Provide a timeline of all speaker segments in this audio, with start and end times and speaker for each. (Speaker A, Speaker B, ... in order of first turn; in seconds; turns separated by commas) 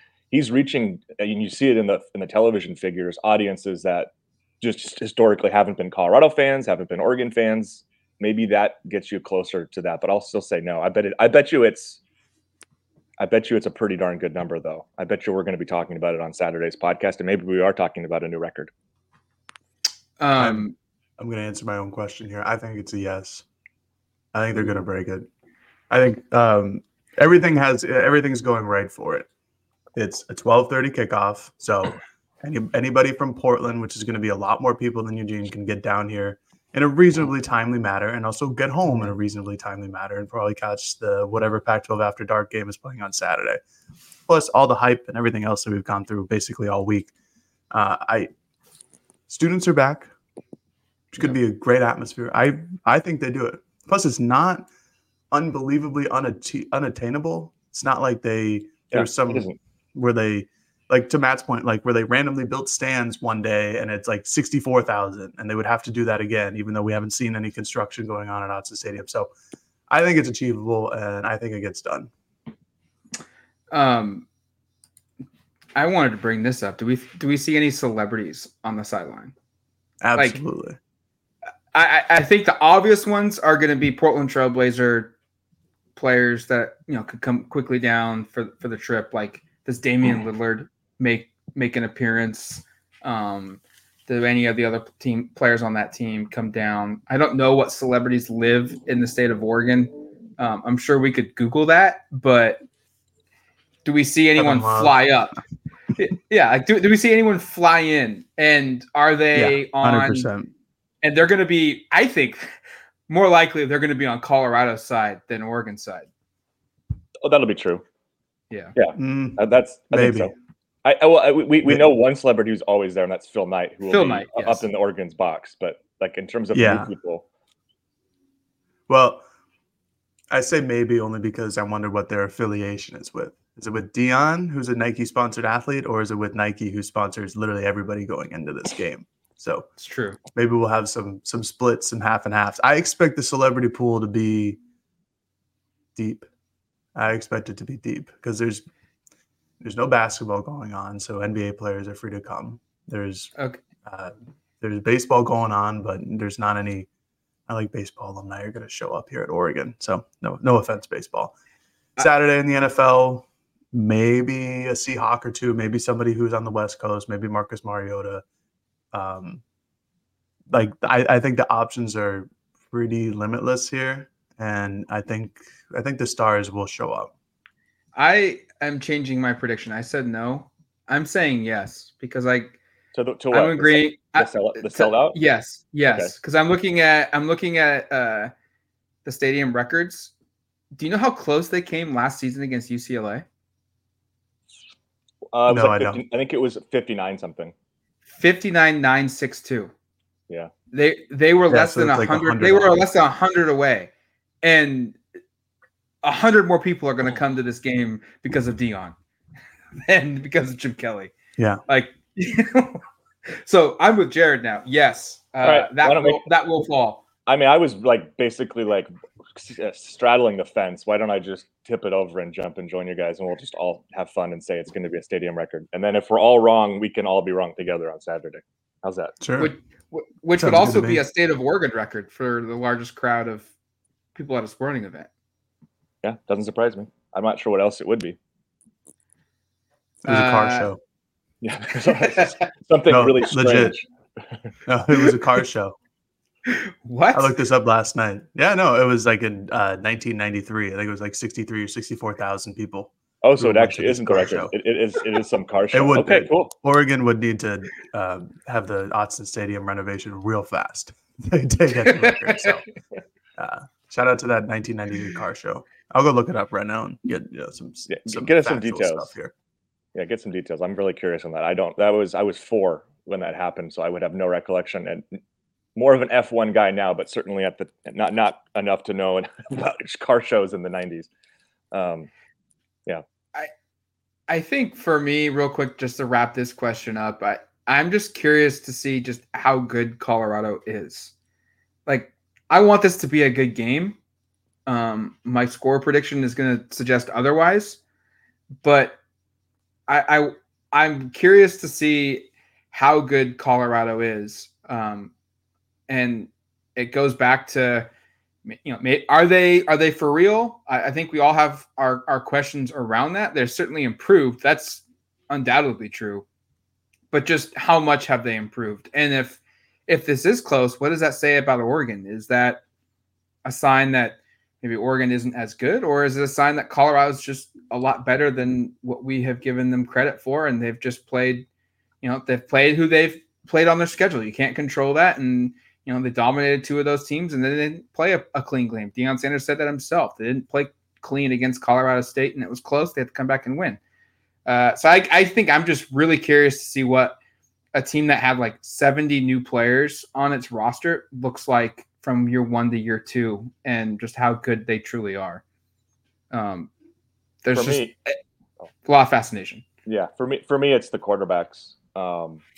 Speaker A: 0.3-12.0, Speaker A: 13.2-18.7, Speaker B: 20.2-20.7, Speaker C: 20.4-23.4, Speaker C: 24.3-25.3, Speaker C: 25.9-29.3, Speaker C: 29.9-43.6, Speaker C: 44.3-47.1, Speaker C: 47.7-48.3, Speaker C: 49.3-50.1, Speaker C: 51.1-54.7, Speaker C: 55.3-69.3, Speaker A: 58.9-59.6, Speaker C: 69.9-72.1, Speaker B: 73.7-74.2, Speaker B: 75.8-79.3, Speaker C: 80.0-80.8, Speaker B: 81.7-85.1, Speaker B: 86.0-102.6, Speaker B: 103.8-105.3, Speaker C: 104.3-105.0, Speaker B: 106.0-110.3, Speaker C: 109.3-110.5, Speaker B: 111.0-112.6, Speaker B: 113.1-116.1, Speaker A: 117.2-117.8, Speaker B: 118.5-118.7, Speaker A: 118.8-120.3, Speaker C: 119.0-119.4, Speaker C: 119.9-120.3, Speaker A: 120.8-127.2, Speaker B: 123.9-124.7, Speaker C: 126.5-126.9, Speaker C: 128.9-129.2, Speaker C: 130.3-139.7, Speaker B: 139.8-140.2, Speaker C: 140.3-144.6, Speaker C: 145.9-146.3, Speaker C: 146.9-148.7, Speaker C: 149.6-153.3, Speaker B: 153.3-153.6, Speaker C: 153.8-156.9, Speaker C: 157.5-161.3, Speaker C: 162.0-168.2, Speaker C: 168.9-169.4, Speaker C: 170.5-177.1, Speaker B: 177.9-182.6, Speaker A: 182.9-185.2, Speaker B: 183.3-188.3, Speaker A: 185.9-186.1, Speaker B: 189.0-190.1, Speaker B: 190.8-193.2, Speaker A: 195.3-197.5, Speaker C: 195.5-196.0, Speaker B: 198.1-199.7, Speaker B: 200.7-203.9, Speaker C: 201.5-202.8, Speaker B: 204.4-205.0, Speaker B: 206.0-208.9, Speaker B: 209.8-211.1, Speaker C: 211.4-211.6, Speaker B: 211.7-217.0, Speaker A: 215.4-216.2, Speaker A: 217.2-229.1, Speaker C: 229.2-229.5, Speaker B: 229.4-233.5, Speaker C: 230.4-231.0, Speaker B: 234.1-235.1, Speaker A: 236.0-238.2, Speaker C: 240.0-240.8, Speaker B: 240.1-240.7, Speaker A: 241.4-244.5, Speaker C: 242.9-243.7, Speaker C: 244.7-245.8, Speaker B: 246.4-247.3, Speaker C: 247.1-254.5, Speaker A: 253.2-256.5, Speaker C: 255.7-262.6, Speaker B: 261.9-262.6, Speaker C: 263.4-269.3, Speaker A: 267.9-269.1, Speaker A: 269.9-275.0, Speaker A: 275.8-281.1, Speaker A: 281.7-282.1, Speaker B: 284.3-291.1, Speaker B: 291.9-294.0, Speaker B: 294.6-297.8, Speaker B: 298.6-299.0, Speaker B: 299.9-305.1, Speaker B: 305.9-307.9, Speaker B: 308.4-316.2, Speaker B: 317.1-322.6, Speaker B: 323.4-331.4, Speaker B: 332.0-343.8, Speaker B: 344.4-347.2, Speaker B: 347.7-355.4, Speaker B: 356.3-356.7, Speaker B: 357.4-358.2, Speaker A: 357.5-357.9, Speaker B: 358.8-359.6, Speaker A: 359.9-362.4